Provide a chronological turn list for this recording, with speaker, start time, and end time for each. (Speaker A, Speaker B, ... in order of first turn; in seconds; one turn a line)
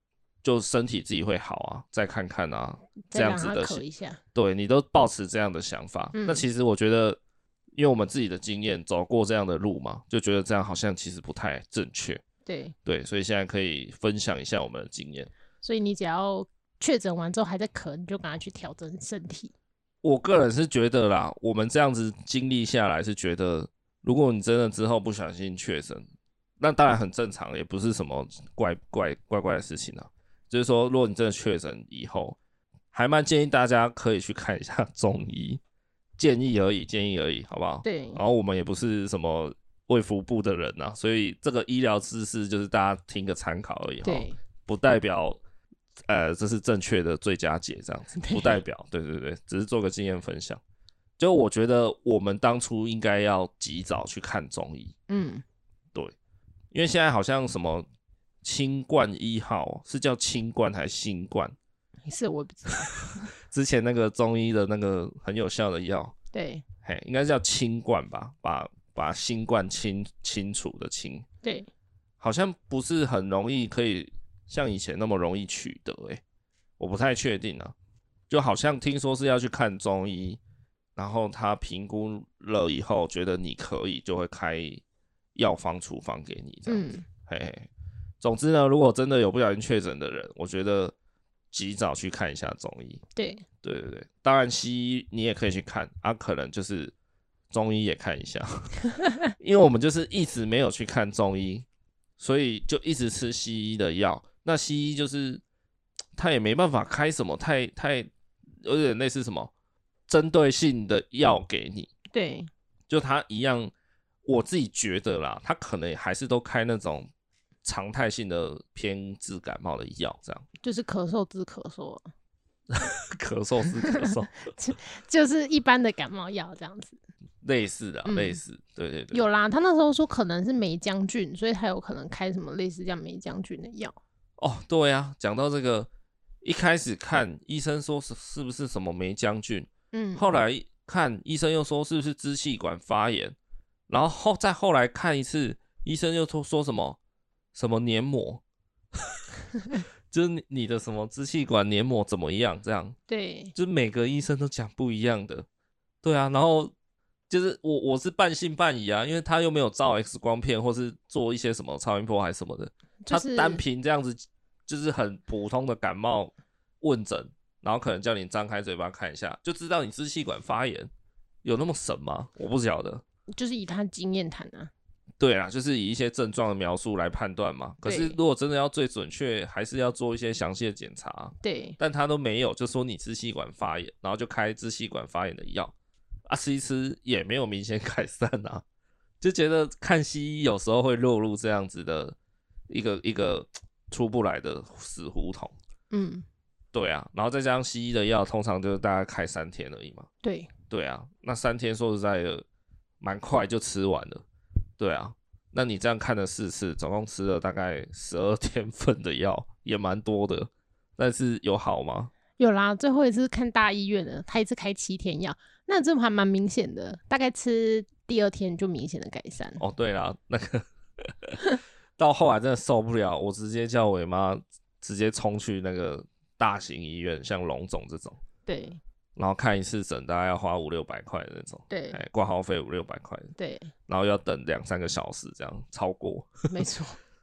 Speaker A: 0.4-3.8
Speaker B: 3.1-4.2
Speaker A: 4.3-7.2
Speaker B: 6.1-6.5
Speaker A: 7.7-12.2
Speaker B: 12.4-12.7
Speaker A: 12.8-15.3
Speaker B: 15.6-19.5
Speaker A: 20.0-26.0
Speaker A: 26.6-32.4
Speaker A: 32.9-35.6
Speaker A: 36.2-45.4
Speaker B: 37.8-38.2
Speaker B: 44.0-44.4
Speaker A: 46.1-50.6
Speaker B: 48.1-48.6
Speaker A: 51.2-54.9
Speaker B: 55.1-55.4
Speaker A: 56.7-57.9
Speaker A: 58.4-61.5
Speaker B: 62.1-63.3
Speaker A: 63.4-66.1
Speaker B: 66.3-66.6
Speaker A: 66.8-71.2
Speaker B: 71.4-71.7
Speaker A: 72.2-76.2
Speaker A: 76.8-77.7
Speaker A: 78.3-80.4
Speaker A: 81.0-84.8
Speaker A: 85.3-87.7
Speaker B: 86.7-87.0
Speaker A: 88.2-90.9
Speaker A: 91.5-93.0
Speaker B: 93.2-93.4
Speaker A: 93.6-96.9
Speaker A: 97.5-101.7
Speaker A: 102.2-105.4
Speaker A: 106.2-108.1
Speaker A: 108.6-109.5
Speaker A: 110.1-111.9
Speaker B: 112.1-112.5
Speaker A: 112.9-113.7
Speaker A: 114.2-117.1
Speaker A: 117.6-120.4
Speaker B: 120.6-122.1
Speaker A: 122.7-124.4
Speaker B: 123.9-127.0
Speaker A: 127.4-129.2
Speaker B: 128.1-128.4
Speaker B: 129.1-134.0
Speaker A: 134.4-135.9
Speaker A: 136.4-143.3
Speaker B: 139.9-140.2
Speaker A: 143.9-147.0
Speaker A: 147.5-148.4
Speaker A: 148.9-149.2
Speaker A: 150.1-152.9
Speaker B: 153.1-153.5
Speaker A: 153.5-155.4
Speaker A: 156.0-156.7
Speaker A: 157.3-170.9
Speaker B: 163.1-163.6
Speaker A: 171.4-173.0
Speaker B: 173.4-174.7
Speaker A: 175.2-185.7
Speaker B: 177.8-178.2
Speaker B: 181.4-181.8
Speaker A: 186.2-188.6
Speaker A: 189.2-192.2
Speaker A: 192.7-195.5
Speaker B: 195.9-196.2
Speaker A: 196.7-200.1
Speaker B: 200.2-200.5
Speaker A: 200.7-202.4
Speaker A: 203.0-204.2
Speaker A: 204.8-212.1
Speaker B: 212.4-219.6
Speaker A: 219.6-221.4
Speaker A: 222.0-228.2
Speaker B: 228.4-228.8
Speaker A: 229.2-233.3
Speaker B: 231.7-232.0
Speaker B: 233.4-233.7
Speaker A: 233.9-236.4
Speaker B: 236.5-237.0